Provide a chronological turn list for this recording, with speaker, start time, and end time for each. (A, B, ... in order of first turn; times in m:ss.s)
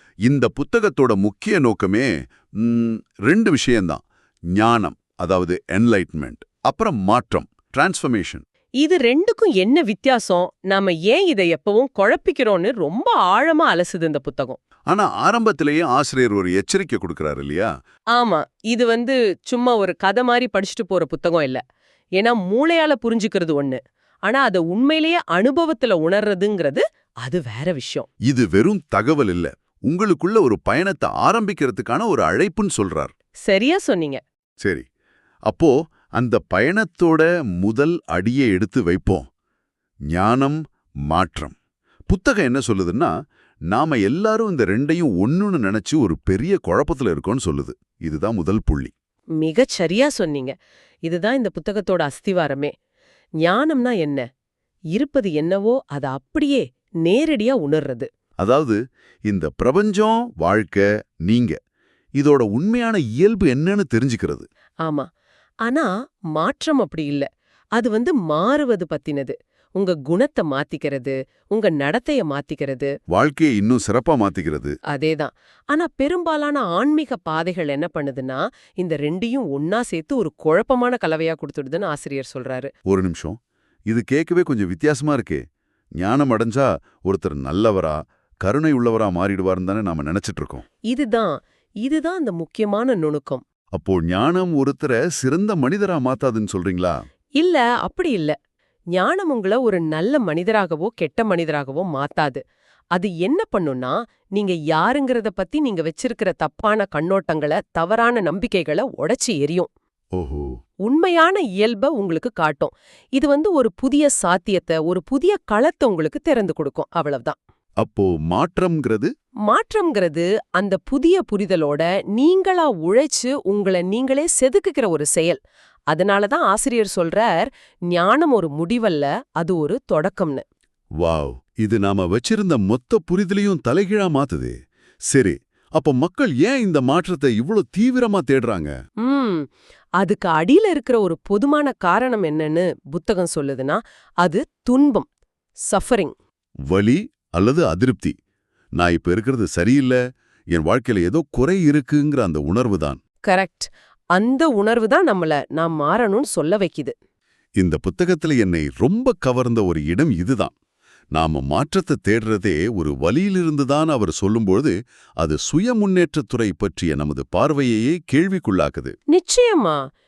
0:00.2-0:04.0 A
0:04.5-0:08.4 A
0:08.8-0:14.6 B
0:14.9-0:17.7 A
0:18.1-0:21.6 B
0:22.2-0:28.1 B
0:28.2-0:33.1 A
0:33.4-0:34.2 B
0:35.5-0:39.2 A
0:40.1-0:41.5 A
0:42.1-0:43.1 A
0:43.7-0:48.9 A
0:49.4-0:52.7 B
0:53.4-0:54.2 B
0:54.9-0:58.1 B
0:58.4-1:01.6 A
1:02.2-1:04.4 A
1:05.6-1:12.9 B
1:13.1-1:14.7 A
1:14.9-1:22.7 B
1:22.9-1:23.4 A
1:23.9-1:25.4 A
1:26.0-1:30.6 A
1:30.9-1:33.4 B
1:33.7-1:37.0 A
1:37.4-1:38.3 B
1:38.9-1:42.4 B
1:42.9-1:49.7 B
1:50.1-1:50.5 A
1:50.8-1:57.4 B
1:57.8-1:59.1 A
1:59.4-2:05.4 B
2:05.9-2:10.4 B
2:11.0-2:14.5 A
2:15.1-2:18.7 A
2:19.0-2:19.5 B
2:20.0-2:25.1 B
2:25.7-2:26.1 B
2:26.7-2:28.1 A
2:28.8-2:30.0 A
2:30.5-2:33.0 A
2:33.3-2:36.9 B
2:37.6-2:40.5 A
2:41.1-2:48.9 A
2:49.1-2:49.8 B